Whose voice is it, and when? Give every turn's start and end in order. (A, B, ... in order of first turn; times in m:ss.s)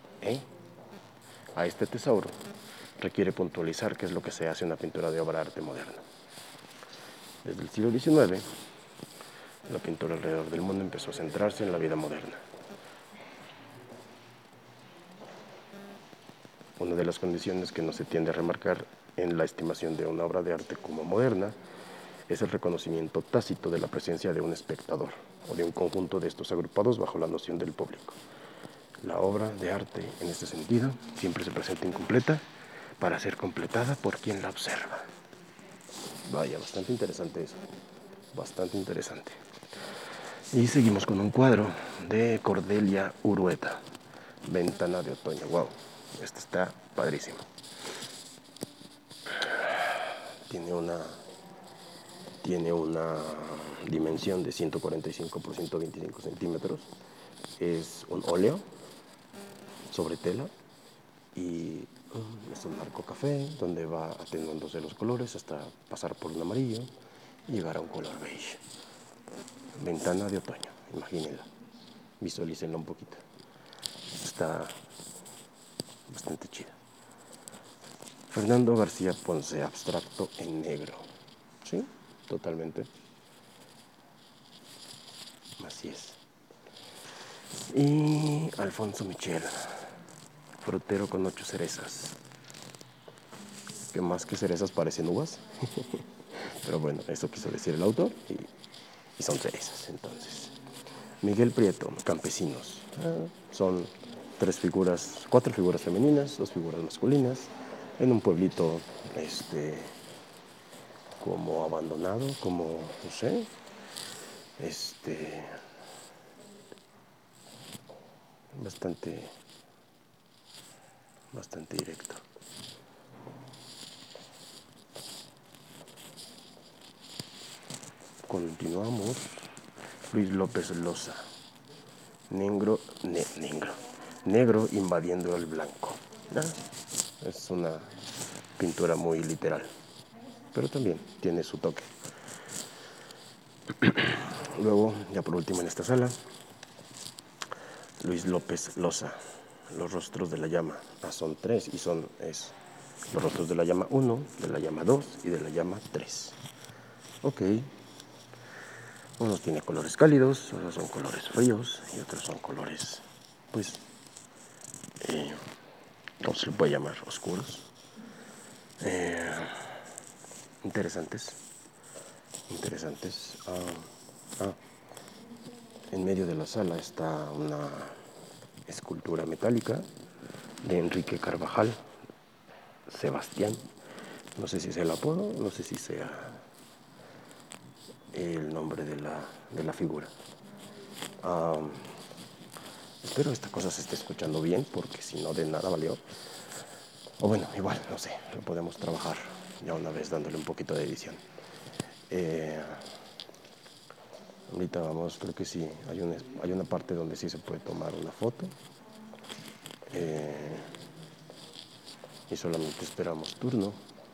0:00.2-0:00.5 A
0:01.6-0:02.4 A
0:03.0-0:06.0 A
0:07.4-0:08.5 A
0:09.7-0:12.4 A
0:16.8-0:21.6 A
0:22.3-0:28.2 A
0:29.0-0:32.4 A
0:33.0-0:35.1 A
0:36.2-0:37.6 A
0:38.3-0:39.4 A
0:40.5-0:43.8 A
0:44.4-0:47.5 A
0:49.4-0:49.9 A
0:50.5-0:51.2 A
0:52.4-0:56.9 A
0:57.6-0:58.6 A
0:59.9-1:00.5 A
1:01.3-1:06.9 A
1:07.5-1:08.6 A
1:09.8-1:11.5 A
1:12.2-1:13.2 A
1:14.1-1:14.8 A
1:16.1-1:16.8 A
1:18.3-1:21.1 A
1:21.6-1:22.9 A
1:25.6-1:26.2 A
1:27.7-1:29.9 A
1:30.6-1:32.2 A
1:33.9-1:38.5 A
1:39.2-1:40.6 A
1:41.2-1:49.9 A
1:51.2-1:53.5 A
1:54.6-1:55.5 A
1:58.5-1:59.3 A
2:01.3-2:02.2 A
2:08.3-2:09.5 A
2:10.1-2:11.3 A
2:12.3-2:16.6 A
2:17.2-2:18.0 A
2:18.6-2:19.7 A
2:20.5-2:21.9 A
2:23.8-2:26.2 A
2:28.0-2:29.2 A
2:29.7-2:32.6 A
2:33.1-2:36.4 A
2:37.2-2:37.7 A
2:39.2-2:43.8 A
2:45.0-2:45.4 A
2:46.2-2:47.7 A
2:48.8-2:49.7 A
2:50.6-2:51.4 A
2:52.5-2:53.9 A
2:55.9-2:58.0 A
2:58.7-2:59.9 A
3:00.6-3:01.8 A
3:02.9-3:03.6 A
3:04.4-3:06.4 A
3:08.1-3:10.1 A
3:11.2-3:12.0 A
3:13.0-3:16.0 A
3:17.2-3:21.2 A
3:22.1-3:22.9 A
3:24.5-3:28.5 A
3:29.9-3:30.7 A
3:32.3-3:33.8 A